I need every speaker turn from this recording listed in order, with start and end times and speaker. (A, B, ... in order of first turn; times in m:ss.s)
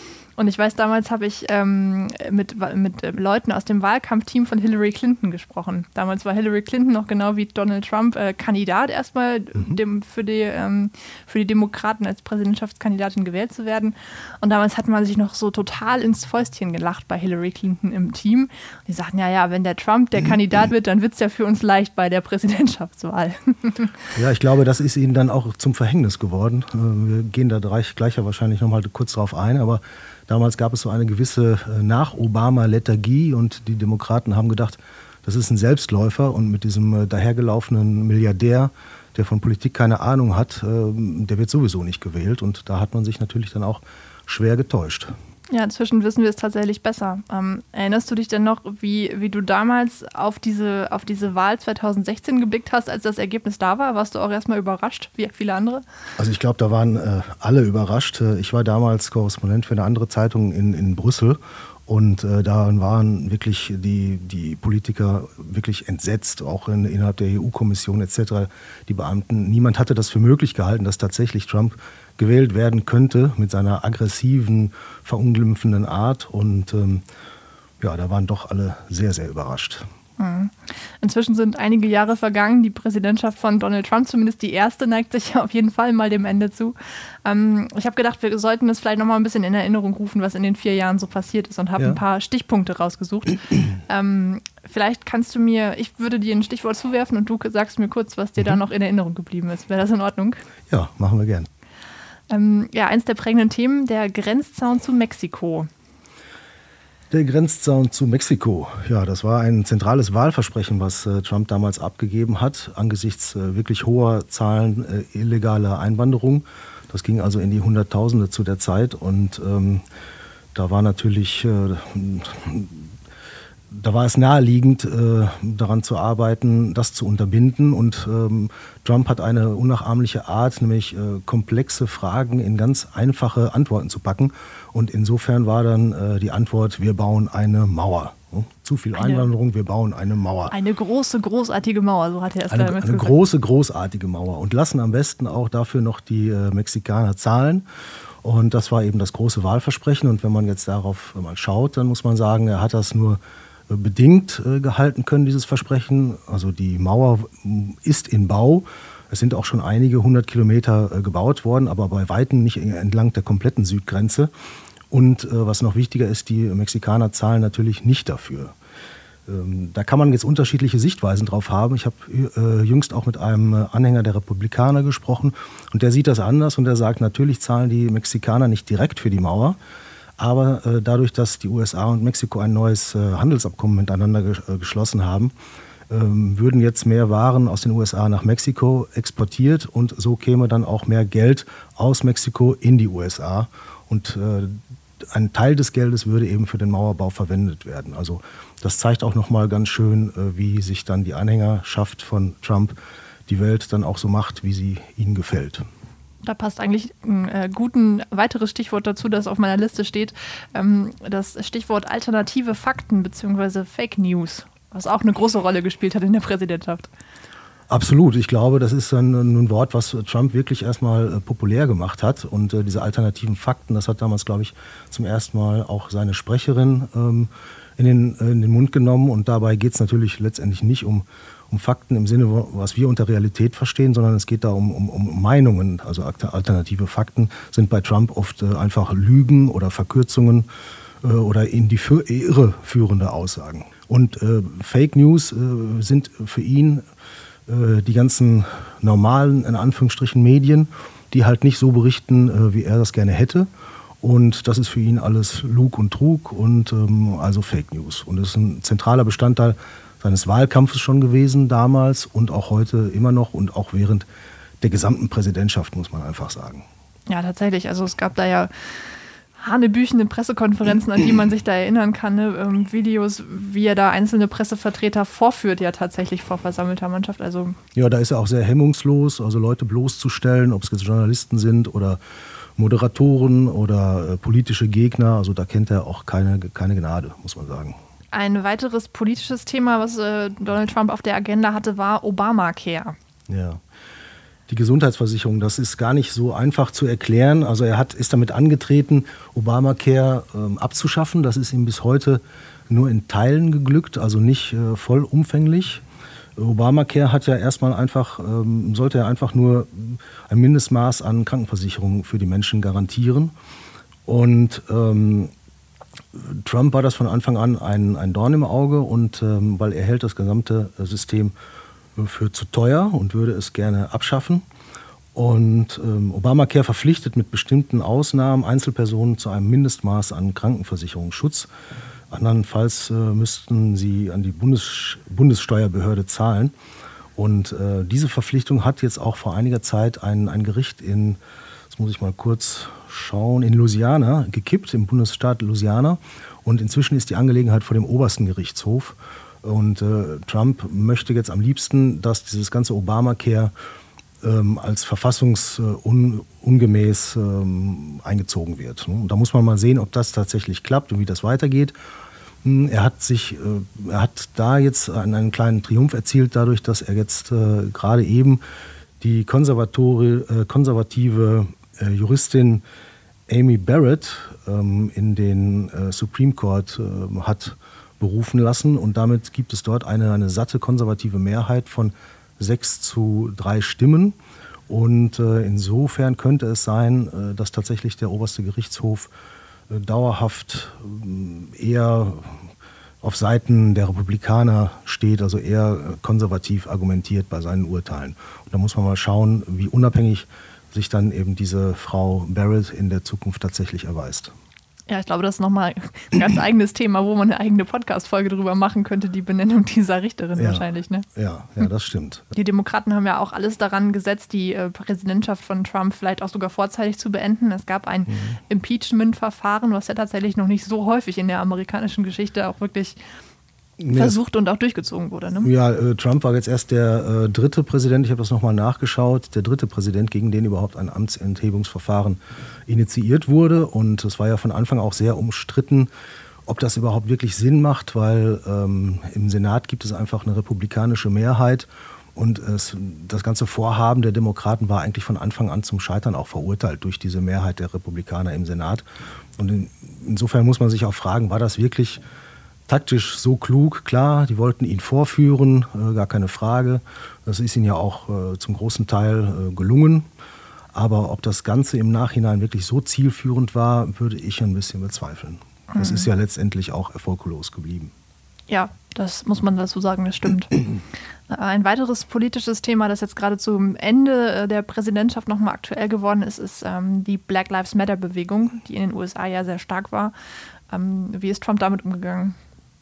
0:00.4-0:24.1 A
0:24.1-0:45.1 B
0:45.5-0:55.8 A
0:56.2-1:17.0 B
1:17.8-1:19.8 B
1:20.2-1:40.4 A
1:40.7-1:41.5 B
1:42.3-1:45.7 A
1:47.1-1:59.8 B
2:00.5-2:02.9 B
2:03.7-2:20.5 B
2:19.0-2:19.3 A
2:20.5-2:23.1 A
2:22.5-2:27.6 B
2:28.2-2:44.3 B
2:44.9-2:48.5 B
2:49.3-2:59.6 B
3:00.2-3:05.3 B
3:05.9-3:22.7 B
3:23.3-3:25.6 B
3:26.2-3:36.9 A
3:37.7-4:00.5 B
4:01.0-4:06.8 B
4:07.5-4:13.5 B
4:14.0-4:24.0 B
4:24.6-4:26.6 B
4:27.1-4:28.5 A
4:29.4-4:37.6 A
4:37.7-4:42.0 B
4:42.6-4:47.8 B
4:48.1-4:53.0 A
4:53.3-4:53.6 B
4:54.5-5:05.8 B
5:06.4-5:13.3 B
5:14.0-5:15.3 B
5:16.1-5:21.3 B
5:22.0-5:24.4 B
5:25.1-5:31.5 B
5:32.1-5:36.5 B
5:37.2-5:53.5 B
5:54.2-6:01.7 B
6:02.4-6:08.4 B
6:09.0-6:12.6 B
6:13.3-6:24.2 B
6:24.7-6:29.1 B
6:29.7-6:32.4 B
6:33.0-6:44.3 B
6:44.9-6:51.0 A
6:50.4-6:52.3 B
6:52.3-7:03.0 A
6:58.1-6:58.4 B
7:03.8-7:04.2 B
7:03.9-7:05.5 A
7:05.4-7:15.9 B
7:16.4-7:28.8 B
7:29.4-7:32.0 B
7:32.7-7:40.0 B
7:40.7-7:47.9 B
7:45.7-7:46.0 A
7:48.5-7:50.6 A
7:51.3-8:00.1 A
8:00.7-8:02.4 A